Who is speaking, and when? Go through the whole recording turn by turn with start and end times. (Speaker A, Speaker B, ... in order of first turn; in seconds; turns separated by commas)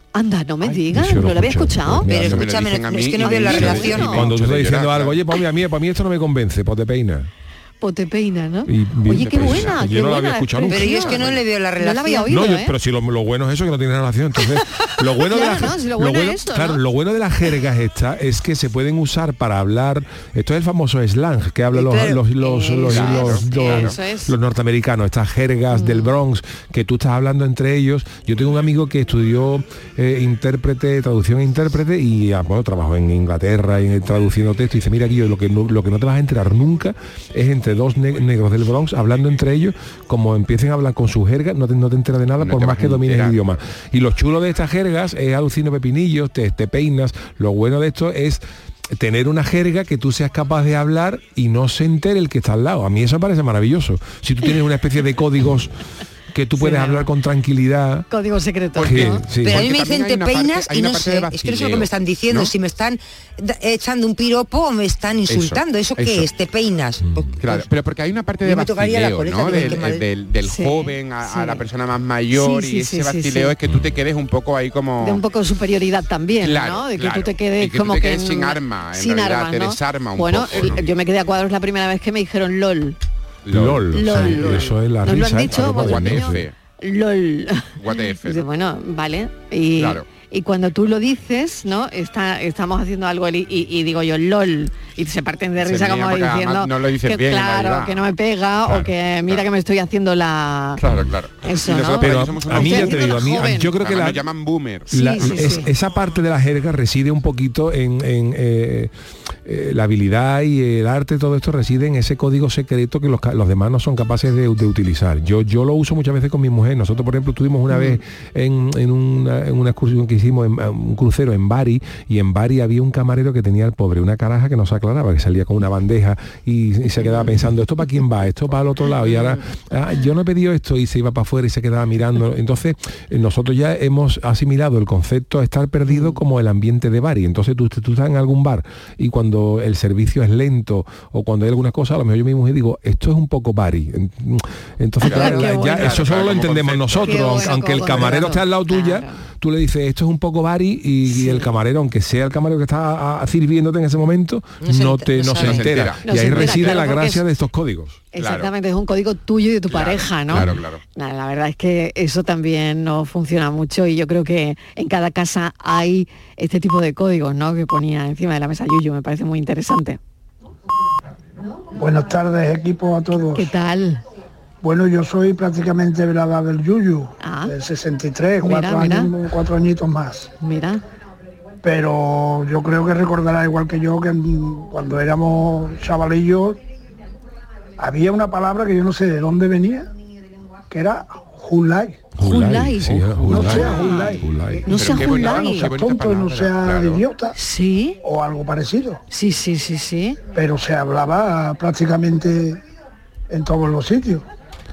Speaker A: 0.1-2.1, Speaker B: 0.9-2.5, Speaker C: 2.1-4.2, Speaker D: 2.2-5.2, Speaker A: 2.9-4.3, Speaker B: 3.6-7.3, Speaker A: 7.8-12.7, Speaker B: 8.7-11.3, Speaker D: 9.2-9.8, Speaker C: 10.7-12.4, Speaker B: 12.3-55.7, Speaker A: 15.3-16.8, Speaker C: 21.7-22.9, Speaker A: 22.8-24.3, Speaker D: 22.8-24.0, Speaker A: 25.7-26.1, Speaker D: 42.4-43.4, Speaker B: 56.3-58.1, Speaker A: 56.6-57.1, Speaker A: 58.1-59.2, Speaker D: 58.8-62.5, Speaker B: 58.8-59.7, Speaker C: 59.4-67.7, Speaker D: 65.3-66.3, Speaker B: 67.0-67.3, Speaker D: 67.4-75.2, Speaker C: 68.4-70.0, Speaker A: 70.4-71.6, Speaker A: 72.3-73.5, Speaker B: 73.7-74.0, Speaker A: 75.0-83.0, Speaker D: 76.4-80.9, Speaker D: 83.4-86.5, Speaker B: 83.5-86.5, Speaker A: 83.9-100.8, Speaker D: 87.8-88.4, Speaker D: 89.8-90.0, Speaker D: 95.6-98.0, Speaker D: 98.7-99.5, Speaker D: 100.8-105.6, Speaker A: 101.4-103.7, Speaker B: 102.0-104.2, Speaker B: 104.9-108.9, Speaker A: 104.9-105.7, Speaker B: 109.4-158.0, Speaker D: 145.0-148.1, Speaker A: 145.1-146.1, Speaker C: 145.1-145.4, Speaker A: 147.0-149.2, Speaker A: 151.1-151.5, Speaker C: 154.6-155.7, Speaker D: 155.3-156.8, Speaker A: 156.0-157.2, Speaker A: 158.1-170.0, Speaker D: 158.2-158.5, Speaker D: 159.7-160.8, Speaker E: 171.7-173.5, Speaker A: 173.3-174.0, Speaker E: 174.6-180.3, Speaker A: 177.2-177.5, Speaker A: 178.4-179.1, Speaker A: 180.4-180.8, Speaker E: 181.6-186.6, Speaker E: 187.8-189.9, Speaker E: 190.7-192.1, Speaker B: 192.2-194.7, Speaker A: 192.2-195.7, Speaker D: 193.0-193.5, Speaker E: 193.3-197.3, Speaker D: 194.7-197.1, Speaker A: 197.3-198.0, Speaker E: 198.0-199.0, Speaker A: 199.1-200.2, Speaker E: 200.3-202.6, Speaker E: 203.3-204.2